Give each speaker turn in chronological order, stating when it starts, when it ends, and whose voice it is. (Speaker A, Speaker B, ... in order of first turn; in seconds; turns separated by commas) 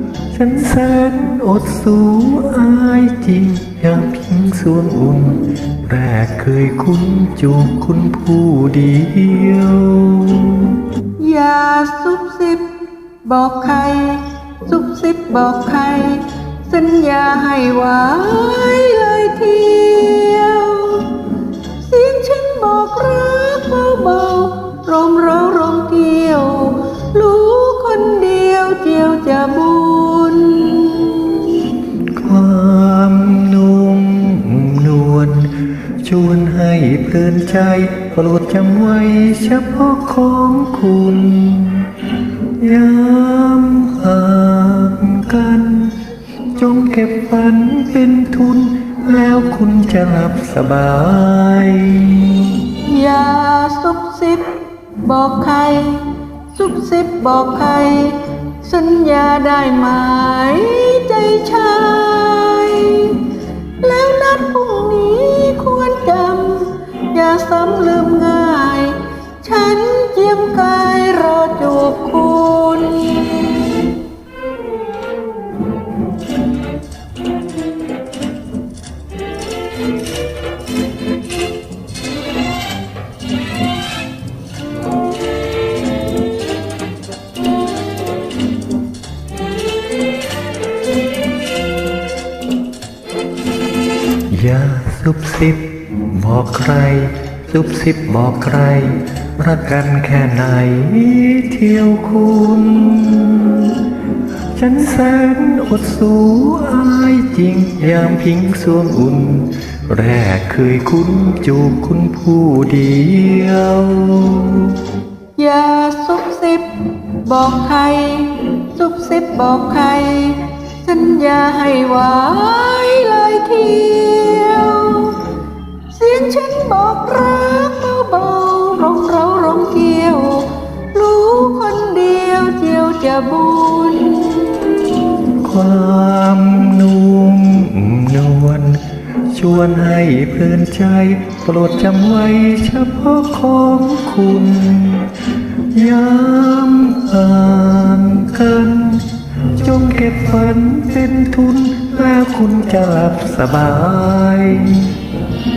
Speaker A: 0.3-10.8, Speaker B: 11.2-12.7, Speaker B: 13.2-31.8, Speaker A: 32.1-52.8, Speaker B: 52.8-74.0, Speaker A: 94.3-114.8, Speaker B: 115.3-125.3, Speaker B: 125.9-135.3, Speaker A: 135.4-155.0